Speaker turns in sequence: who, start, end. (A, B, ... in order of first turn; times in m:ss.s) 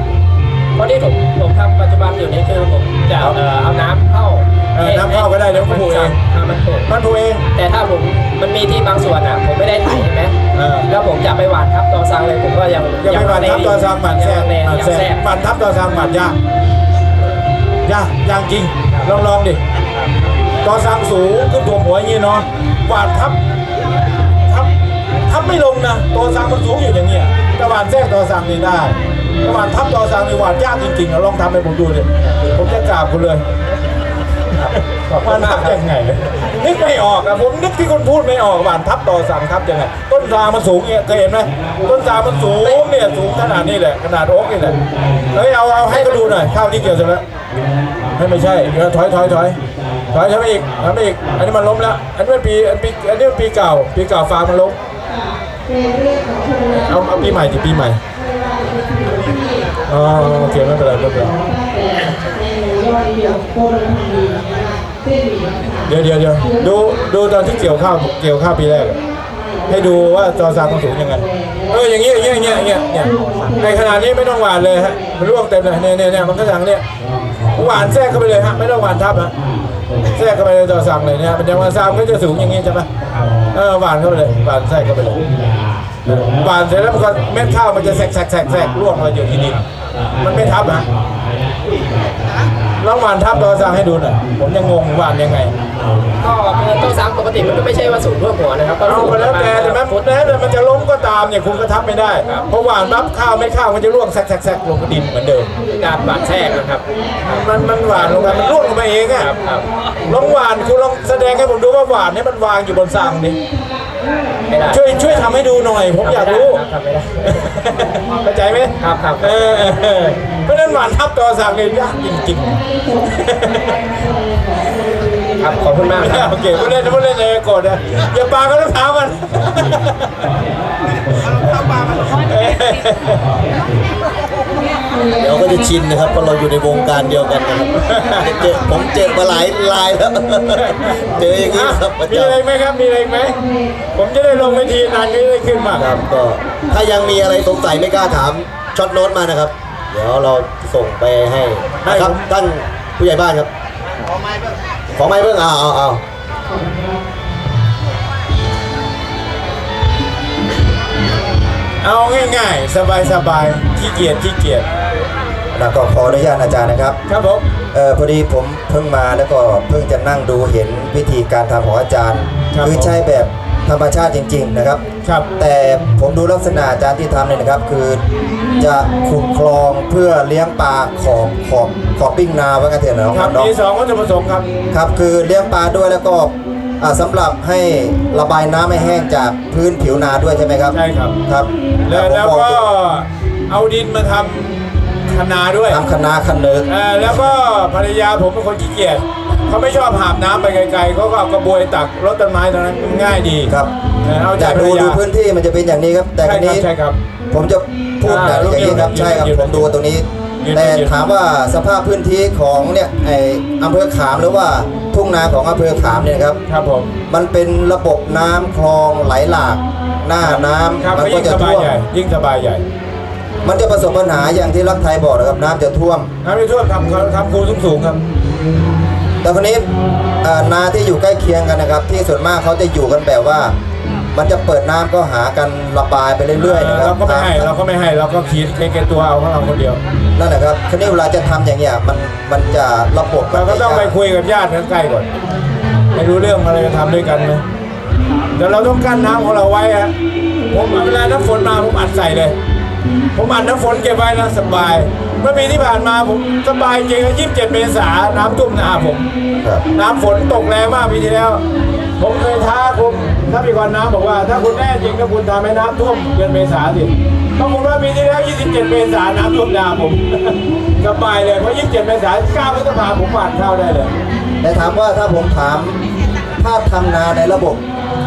0:00.8-0:06.9 A
0:04.8-0:06.2 B
0:06.9-0:07.4 B
0:07.6-0:10.4 A
0:10.5-0:10.9 B
0:10.9-0:15.2 A
0:13.0-0:16.4 B
0:17.9-0:19.6 B
0:20.6-0:23.4 B
0:25.3-0:33.4 B
0:35.1-0:35.8 A
0:35.2-0:44.8 B
0:45.3-0:47.2 B
0:45.9-0:46.3 A
0:48.2-0:49.6 B
0:50.1-0:54.8 B
0:56.8-0:58.0 B
0:59.9-1:01.4 B
1:05.9-1:09.0 B
1:09.7-1:16.8 B
1:17.5-1:19.3 B
1:20.2-1:22.9 B
1:23.5-1:25.2 B
1:26.0-1:29.6 B
1:30.2-1:30.8 B
1:32.8-1:35.5 B
1:36.2-1:40.3 A
1:38.8-1:45.5 B
1:45.7-1:47.4 A
1:47.2-1:49.3 B
1:48.0-1:48.5 A
1:49.1-1:49.7 A
1:50.1-1:53.4 B
1:54.5-1:55.4 A
1:54.7-1:56.6 B
1:56.0-1:57.6 A
1:57.2-2:03.8 B
1:58.8-1:59.7 A
2:05.4-2:06.7 A
2:06.0-2:10.1 B
2:11.5-2:13.2 B
2:15.2-2:22.4 C
2:17.8-2:18.4 B
2:20.5-2:23.4 B
2:24.0-2:25.9 B
2:25.8-2:33.5 C
2:31.8-2:32.2 B
2:34.9-2:36.0 C
2:41.8-2:44.6 B
2:45.5-2:47.0 D
2:47.1-2:47.5 B
2:47.7-2:54.8 D
2:52.5-2:52.9 B
2:55.0-2:55.3 B
2:55.4-2:58.0 D
2:58.6-3:03.5 D
3:03.1-3:04.5 B
3:04.7-3:12.6 D
3:10.7-3:11.2 B
3:11.9-3:14.6 B
3:15.1-3:15.9 B
3:15.7-3:17.2 D
3:16.7-3:23.5 B
3:23.5-3:23.7 D
3:24.0-3:25.0 B
3:24.3-3:26.7 D
3:26.2-3:27.0 B
3:27.3-3:36.4 D
3:28.0-3:29.8 B
3:30.4-3:30.9 B
3:36.5-3:37.0 B
3:37.1-3:41.7 D
3:40.2-3:42.6 B
3:43.4-3:46.1 D
3:46.2-3:48.0 B
3:49.2-3:49.7 D
3:50.2-3:53.5 D
3:54.1-3:57.5 D
3:56.4-3:59.8 B
4:00.2-4:04.0 D
4:03.3-4:05.1 B
4:06.0-4:07.4 B
4:08.4-4:09.9 B
4:10.5-4:12.3 B
4:13.2-4:19.1 B
4:19.7-4:21.4 B
4:22.0-4:33.9 B
4:34.4-4:35.8 D
4:36.4-4:37.6 D